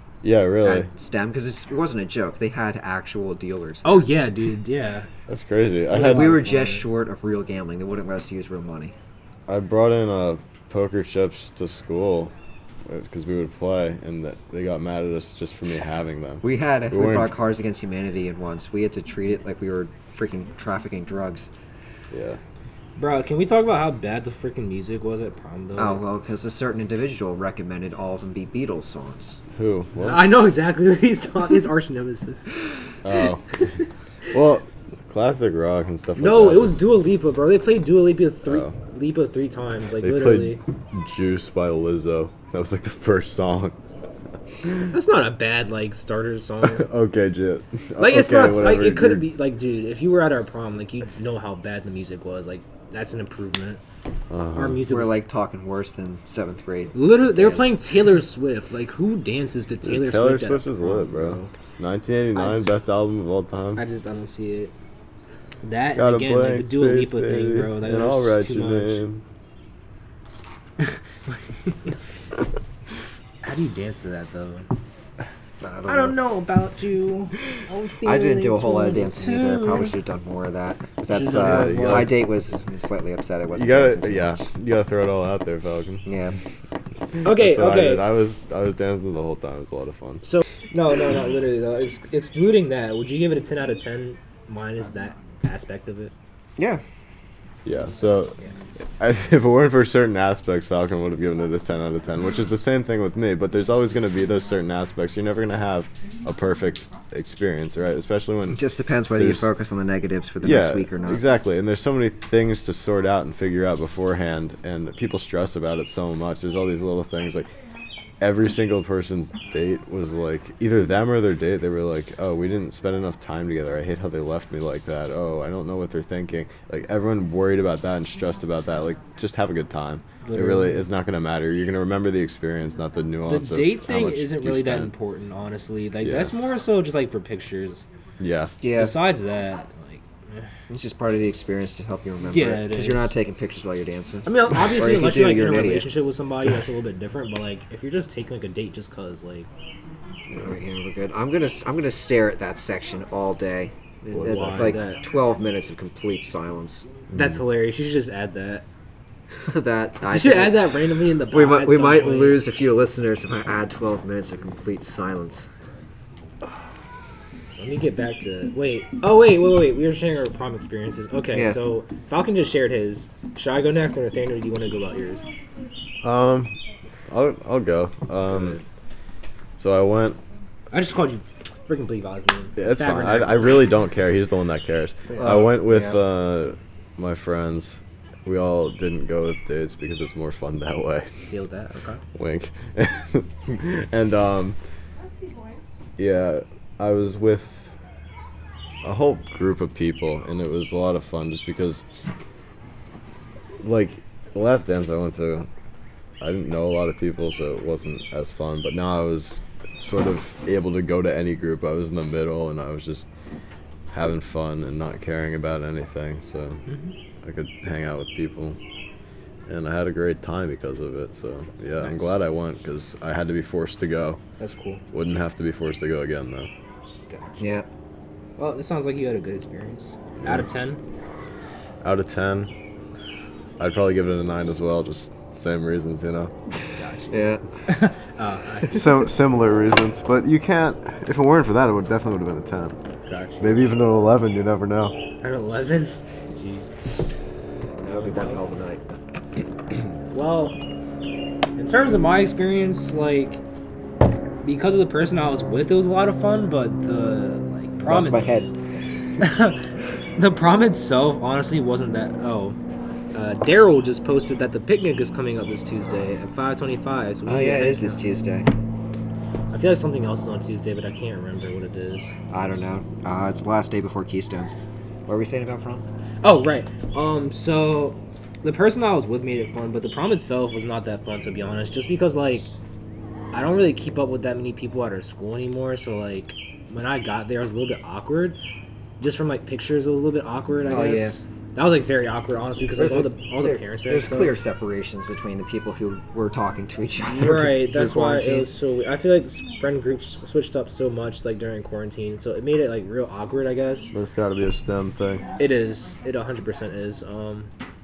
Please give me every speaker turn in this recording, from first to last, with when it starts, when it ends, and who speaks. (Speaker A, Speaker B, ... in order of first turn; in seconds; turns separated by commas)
Speaker A: 0.2-0.9, Speaker B: 0.6-4.1, Speaker C: 3.8-5.1, Speaker A: 5.3-6.3, Speaker C: 5.9-6.8, Speaker B: 5.9-8.9, Speaker A: 9.5-12.3, Speaker A: 12.8-17.3, Speaker B: 16.4-21.5, Speaker A: 22.1-22.4, Speaker C: 23.0-26.0, Speaker B: 25.8-29.4, Speaker A: 29.6-30.3, Speaker C: 30.0-32.6, Speaker A: 33.0-33.7, Speaker A: 34.3-36.9, Speaker C: 36.2-40.6, Speaker A: 38.5-38.7, Speaker A: 40.0-43.8, Speaker C: 44.9-46.9, Speaker A: 46.8-49.3, Speaker C: 48.0-53.8, Speaker A: 54.3-54.8, Speaker C: 54.5-55.2, Speaker B: 54.9-57.8, Speaker C: 56.9-61.5, Speaker A: 59.8-63.8, Speaker C: 62.4-62.7, Speaker C: 63.8-64.7, Speaker C: 65.6-69.0, Speaker A: 66.0-69.2, Speaker C: 70.8-72.0, Speaker C: 73.4-74.7, Speaker B: 75.6-76.2, Speaker C: 75.8-79.9, Speaker B: 78.0-84.4, Speaker C: 81.1-82.2, Speaker A: 81.3-82.2, Speaker A: 83.5-86.1, Speaker B: 86.1-86.4, Speaker C: 87.2-88.1, Speaker A: 87.2-90.2, Speaker C: 90.2-96.1, Speaker B: 96.6-96.8, Speaker A: 97.7-98.4, Speaker A: 99.0-108.7, Speaker B: 108.5-111.2, Speaker A: 109.2-109.5, Speaker A: 110.4-117.5, Speaker A: 118.2-134.9, Speaker C: 130.2-130.8, Speaker C: 133.3-137.9, Speaker A: 136.0-136.3, Speaker A: 138.2-138.5, Speaker B: 138.6-139.0, Speaker C: 138.7-140.5, Speaker B: 140.7-145.9, Speaker C: 142.2-143.2, Speaker C: 144.3-149.5, Speaker B: 150.3-156.9, Speaker C: 154.1-155.0, Speaker A: 154.2-154.8, Speaker C: 157.1-158.7, Speaker A: 157.1-157.4, Speaker B: 159.4-160.7, Speaker C: 160.1-162.4, Speaker B: 161.3-165.5, Speaker C: 167.6-175.2, Speaker B: 171.3-171.6, Speaker A: 176.0-176.5, Speaker A: 177.1-178.6, Speaker C: 178.3-178.6, Speaker A: 179.6-180.2, Speaker C: 180.7-183.7, Speaker A: 182.6-191.3, Speaker B: 185.2-186.0, Speaker C: 191.3-192.0, Speaker A: 192.2-194.6, Speaker A: 196.0-197.7, Speaker A: 198.8-201.8, Speaker A: 203.6-205.5, Speaker A: 206.2-213.1, Speaker A: 213.9-216.6, Speaker C: 216.7-216.9, Speaker A: 217.2-218.6, Speaker A: 219.5-224.2, Speaker C: 221.8-222.1, Speaker C: 224.4-224.8, Speaker A: 224.9-226.5, Speaker C: 227.1-227.6, Speaker B: 227.4-227.7, Speaker C: 228.4-230.8, Speaker A: 231.8-232.5, Speaker A: 233.6-236.3, Speaker C: 236.7-239.0, Speaker B: 237.1-237.4, Speaker A: 238.7-242.8, Speaker C: 243.1-243.6, Speaker A: 243.4-245.0, Speaker C: 245.2-246.7, Speaker B: 247.8-249.0, Speaker C: 247.9-248.4, Speaker C: 250.1-250.6, Speaker C: 251.6-253.4, Speaker C: 254.4-258.5, Speaker B: 257.9-258.6, Speaker C: 259.2-262.6, Speaker C: 263.1-268.0, Speaker B: 267.3-268.5, Speaker C: 269.5-272.1, Speaker B: 272.3-275.9, Speaker C: 276.2-282.5, Speaker C: 283.3-288.4, Speaker C: 289.0-294.4, Speaker B: 290.7-291.2, Speaker B: 292.8-298.5, Speaker C: 297.1-303.9, Speaker A: 303.9-305.3, Speaker C: 305.4-307.5